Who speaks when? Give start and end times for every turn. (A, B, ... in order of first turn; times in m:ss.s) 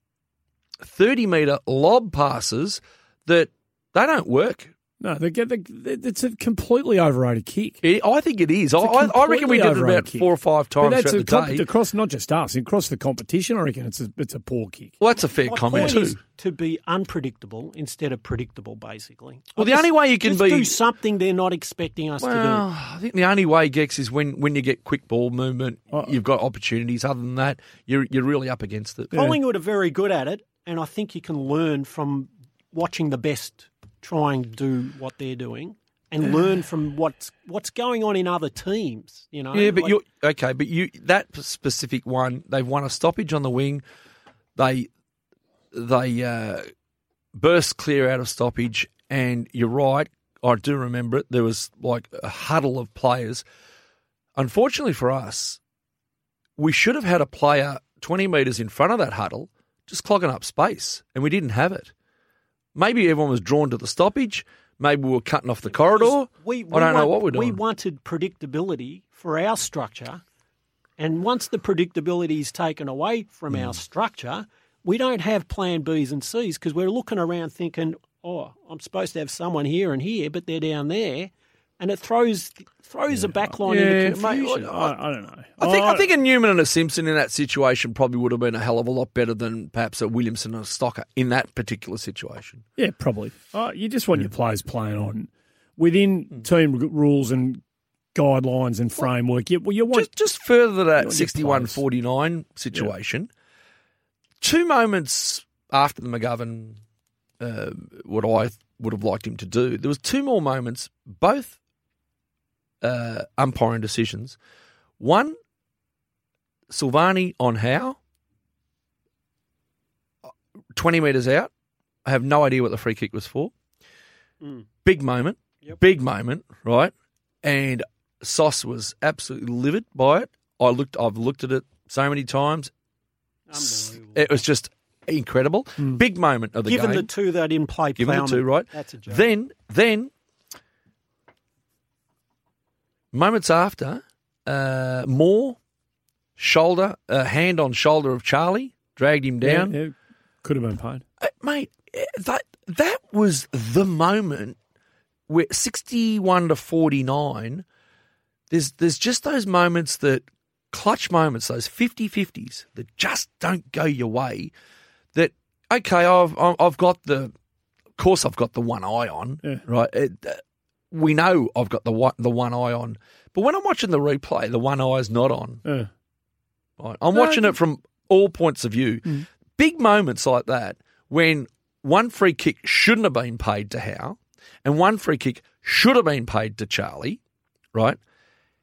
0:00.8-0:04.7 A
0:05.0-0:07.8 B
0:07.8-0:11.6 A
0:08.8-0:10.3 B
0:10.8-0:15.0 B
0:15.0-0:16.2 A
0:15.4-0:22.6 C
0:19.6-0:20.8 A
0:22.2-0:29.2 A
0:29.1-0:39.9 C
0:39.5-0:43.8 A
0:44.6-0:44.9 A
0:45.7-0:46.6 A
0:47.3-0:53.4 A
0:54.4-0:55.6 A
0:56.6-1:01.9 A
1:02.7-1:07.6 A
1:05.7-1:10.2 C
1:11.0-1:24.9 C
1:23.6-1:24.9 A
1:24.7-1:26.0 B
1:25.6-1:32.6 A
1:32.8-1:37.6 B
1:38.1-1:40.1 B
1:39.9-1:43.3 A
1:41.0-1:41.8 B
1:44.4-1:46.8 A
1:47.4-1:51.6 A
1:52.8-1:54.4 A
1:55.0-1:55.3 A
1:56.7-1:58.0 A
2:00.7-2:01.5 A
2:02.0-2:03.5 A
2:04.8-2:06.9 A
2:07.4-2:12.7 A
2:13.5-2:14.2 C
2:14.1-2:17.1 A
2:16.6-2:19.2 C
2:18.0-2:20.1 A
2:23.1-2:25.6 A
2:26.4-2:29.7 A
2:29.4-2:31.0 B
2:31.2-2:34.6 A
2:35.3-2:37.6 A
2:38.5-2:44.5 A
2:45.1-2:47.3 A
2:48.0-2:55.6 A
2:55.6-2:55.9 B
2:56.8-3:07.2 A
2:57.1-2:57.5 B